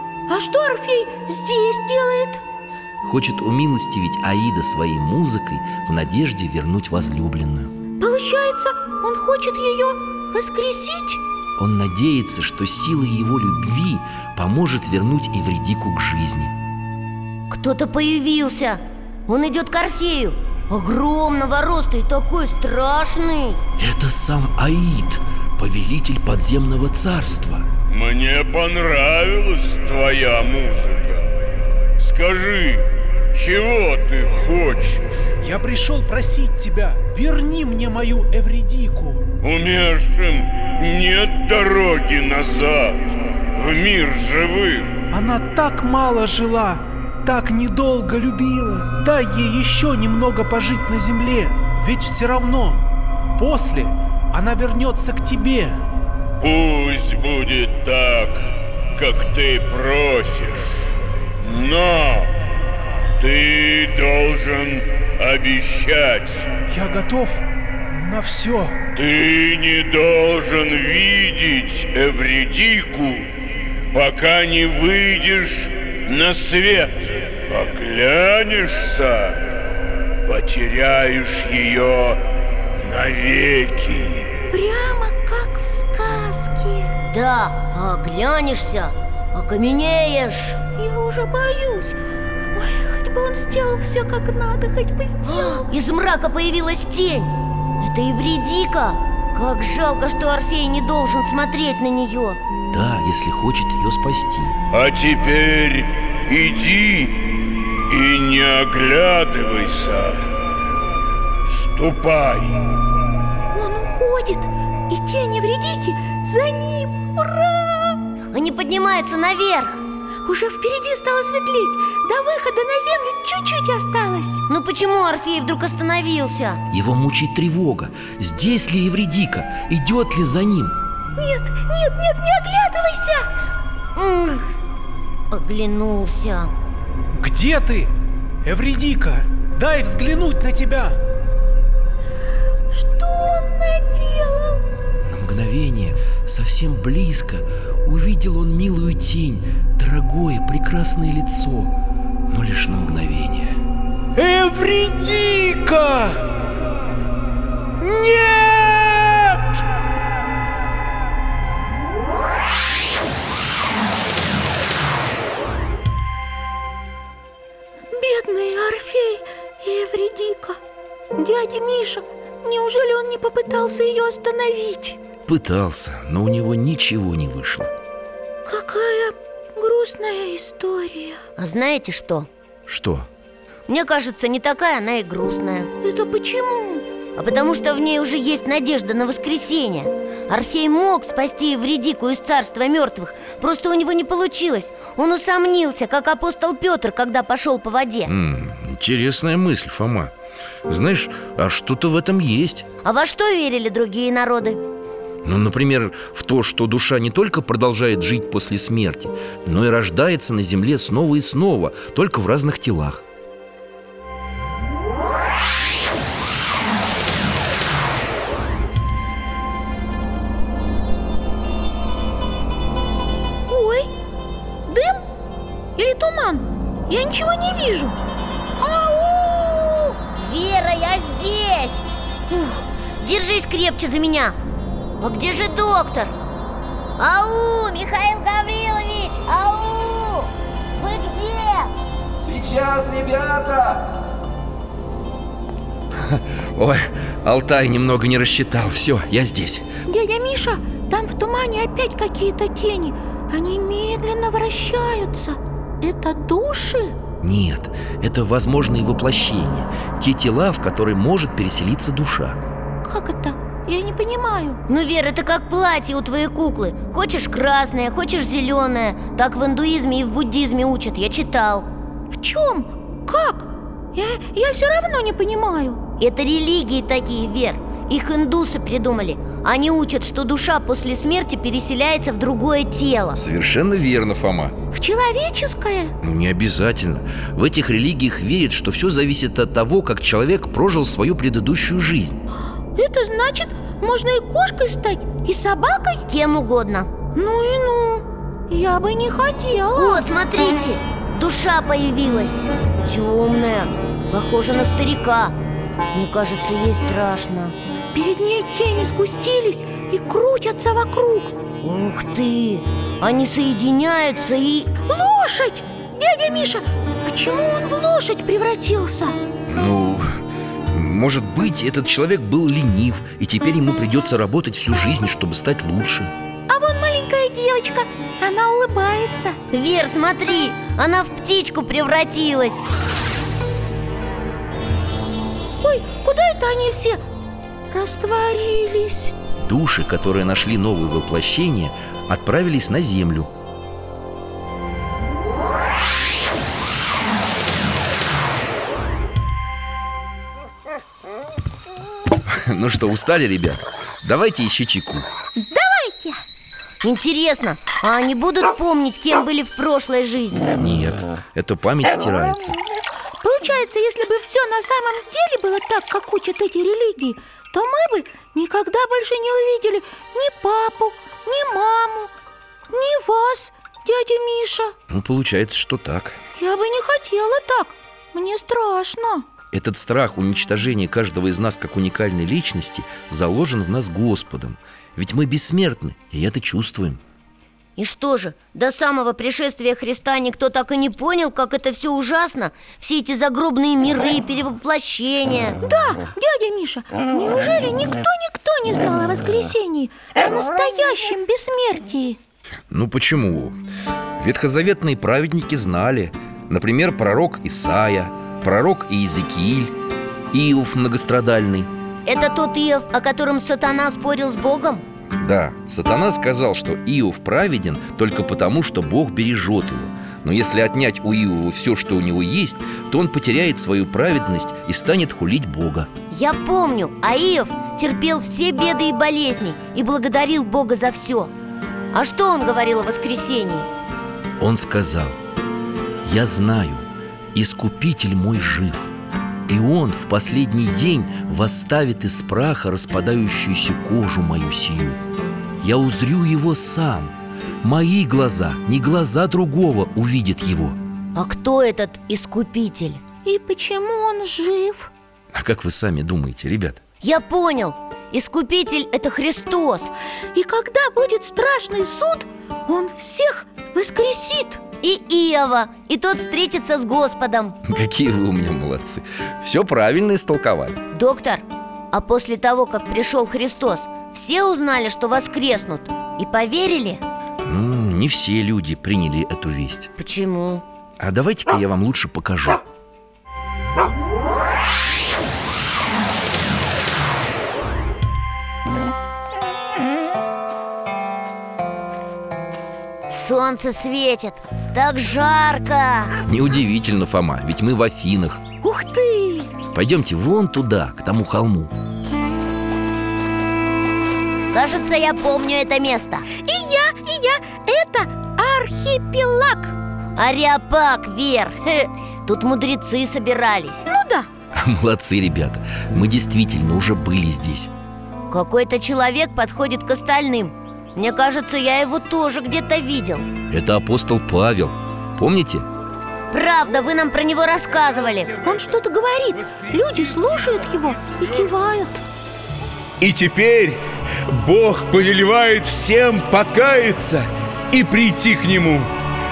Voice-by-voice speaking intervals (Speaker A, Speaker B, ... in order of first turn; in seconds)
Speaker A: 0.3-2.4, 8.0-11.2, 84.5-86.9, 90.8-92.0, 92.5-95.7, 113.5-118.0, 120.2-124.4, 131.2-133.3, 142.7-144.6, 167.9-170.6, 171.2-175.0, 178.4-181.2, 185.8-186.8, 223.5-223.9, 224.7-225.0, 225.8-228.0, 249.9-256.9, 262.8-264.6, 272.1-275.8, 284.7-285.9, 292.7-296.1, 297.1-300.1, 307.9-311.3, 314.9-319.2, 326.5-329.4, 335.6-337.0, 337.7-339.1, 355.4-356.2, 363.2-372.1, 372.7-374.7, 376.4-379.2, 395.6-402.2, 453.2-454.9, 460.3-464.6, 498.6-499.5, 506.3-509.7, 513.9-514.3, 528.4-532.0
Speaker B: 3.0-7.7, 11.6-16.5, 23.8-27.7, 102.7-104.6, 126.7-130.8, 145.0-151.8, 152.3-153.6, 175.2-177.7, 182.7-183.1, 198.1-200.1, 200.7-202.7, 205.2-213.0, 242.2-243.8, 245.9-249.7, 257.2-262.4, 283.1-284.6, 286.0-292.2, 319.5-326.1, 339.4-343.3, 352.3-355.1, 360.6-362.6, 374.9-376.2, 379.5-387.0, 402.7-403.6, 404.2-409.7, 410.3-411.7, 415.1-425.9, 434.4-435.2, 436.0-438.9, 439.5-445.0, 445.6-450.8, 455.3-456.8, 467.6-470.8, 477.4-479.9, 481.0-482.6, 496.2-498.4, 499.7-501.7, 514.5-517.7, 523.5-525.7
Speaker C: 17.5-23.6, 87.1-90.6, 95.2-102.4, 118.3-119.8, 124.5-126.6, 133.9-134.5, 135.3-136.5, 181.4-182.3, 183.7-185.7, 187.2-198.1, 202.8-204.6, 228.6-234.4, 235.0-236.1, 237.0-241.7, 264.7-271.7, 276.0-283.2, 296.1-296.9, 299.7-305.4, 305.9-307.6, 311.6-314.7, 329.5-332.6, 356.8-360.5, 387.8-395.6, 412.1-414.8, 426.1-431.3, 431.9-433.7, 451.1-453.0, 457.0-459.9, 464.8-467.6, 470.9-477.0, 480.0-480.6, 493.1-496.1, 504.5-506.3, 510.1-513.8, 518.3-523.3, 526.3-528.4
Speaker D: 27.9-31.3, 32.0-35.1, 39.4-45.0, 56.4-62.3, 63.2-66.5, 69.0-73.3, 73.9-79.5, 80.2-82.2, 82.8-84.3, 104.7-110.2, 111.5-112.6, 529.4-531.3, 533.0-538.9
Speaker E: 35.4-39.2, 45.1-52.8, 53.4-55.8, 66.7-68.8, 137.1-137.9, 138.4-141.0, 154.2-156.2, 157.8-159.4